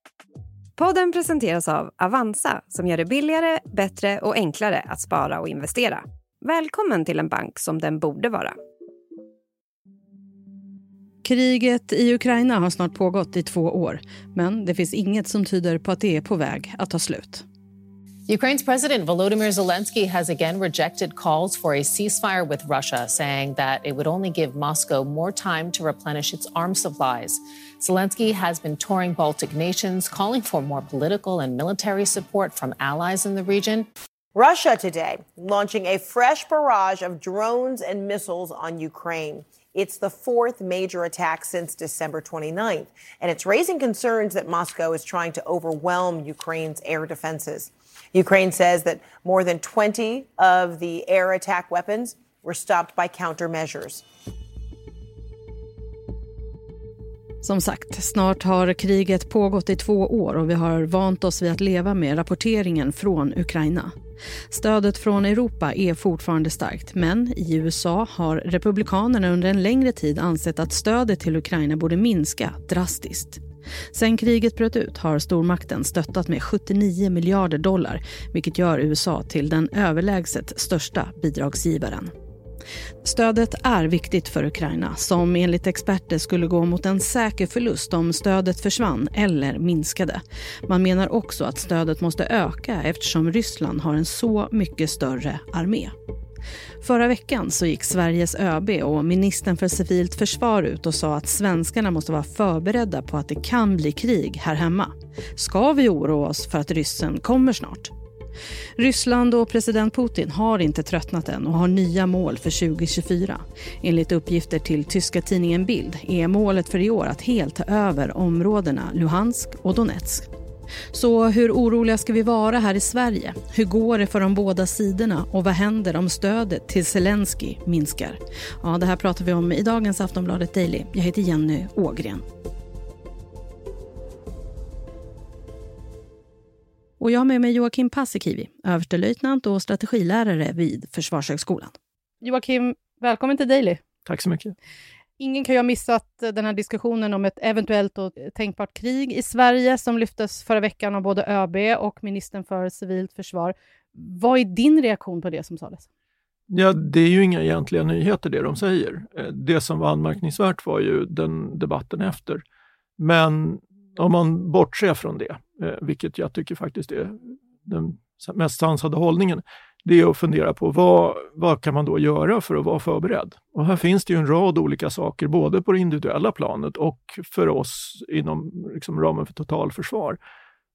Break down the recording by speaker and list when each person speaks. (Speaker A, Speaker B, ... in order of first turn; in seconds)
Speaker A: 0.8-8.6
Speaker B: 11.2-17.5, 57.4-63.9, 64.5-82.1, 83.0-95.9, 96.8-107.9, 108.8-120.3, 120.9-132.2, 137.0-143.8, 145.2-155.9
Speaker C: 18.3-33.9
Speaker D: 34.4-54.0
Speaker E: 144.1-144.6, 156.5-162.4, 163.0-180.2